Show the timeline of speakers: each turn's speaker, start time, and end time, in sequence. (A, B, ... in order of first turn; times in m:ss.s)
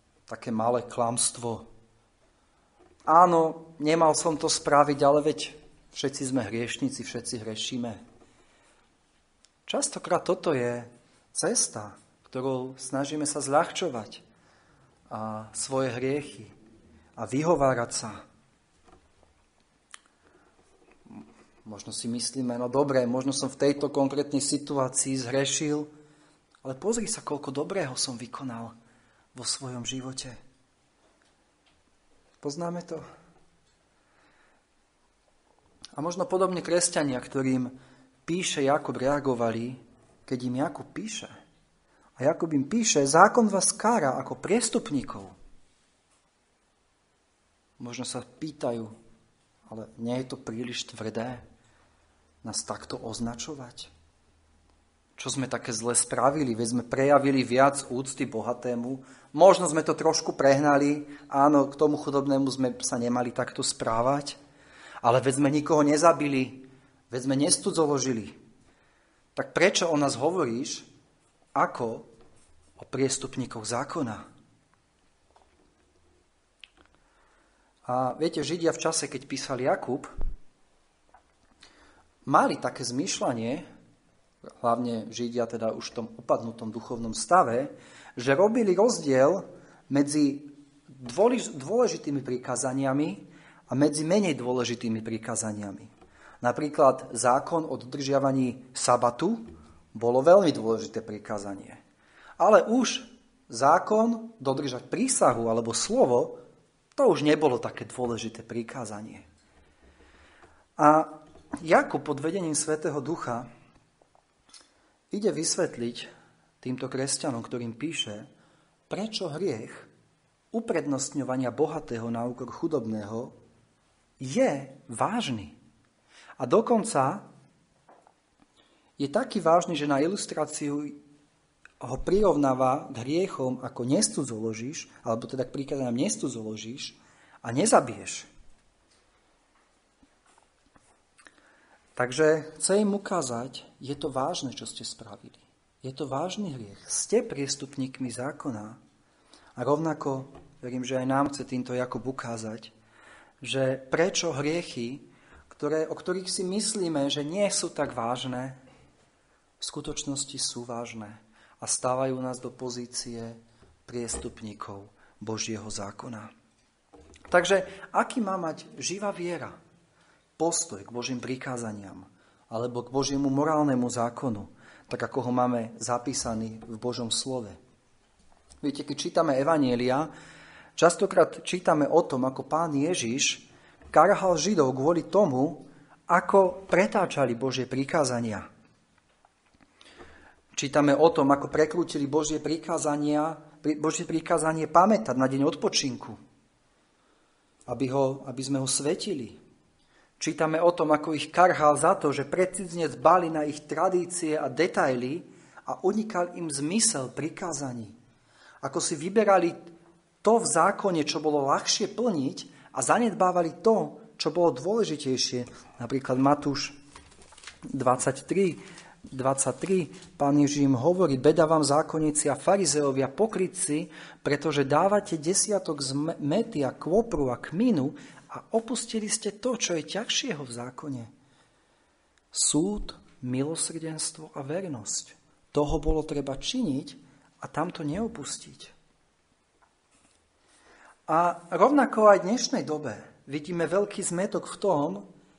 0:00.3-0:01.6 A
0:03.1-0:08.0 A
0:09.7-0:14.2 A
0:15.1-0:16.5 A
0:17.2-0:18.2 A
0:21.1-0:25.9 A
0:26.6-0:28.7 A
0:29.3-0:30.4 A
0:32.4-0:33.0 A
0:36.0-0:37.7 A
0:38.3-0:41.3 A
0:42.2-0:45.4 A
0:47.8-0:48.9 A
0:49.7-0:51.4 A
0:52.4-0:53.9 A
0:55.2-1:04.4 A
1:05.0-1:08.4 A
1:09.4-1:10.9 A
1:11.6-1:12.1 A
1:12.8-1:14.2 A
1:17.9-1:20.1 A
1:22.3-1:23.6 A
1:24.6-1:41.8 A
1:42.4-1:46.4 A
1:47.0-1:49.3 A
1:50.8-1:53.5 A
1:55.1-1:56.1 A
1:56.6-1:58.3 A
1:58.9-1:59.9 A
2:00.5-2:03.4 A
2:04.2-2:05.6 A
2:06.4-2:07.3 A
2:09.0-2:11.0 A
2:11.8-2:18.3 A
2:22.0-2:28.8 A
2:29.6-2:32.7 A
2:33.4-2:38.6 A
2:39.6-2:46.3 A
2:47.3-2:49.6 A
2:50.4-2:57.6 A
2:58.6-3:00.1 A
3:00.8-3:08.5 A
3:10.5-3:16.2 A
3:17.7-3:19.4 A
3:20.2-3:28.0 A
3:28.6-3:29.7 A
3:30.2-3:36.8 A
3:37.7-3:51.1 A
3:52.3-3:58.7 A
4:01.1-4:05.1 A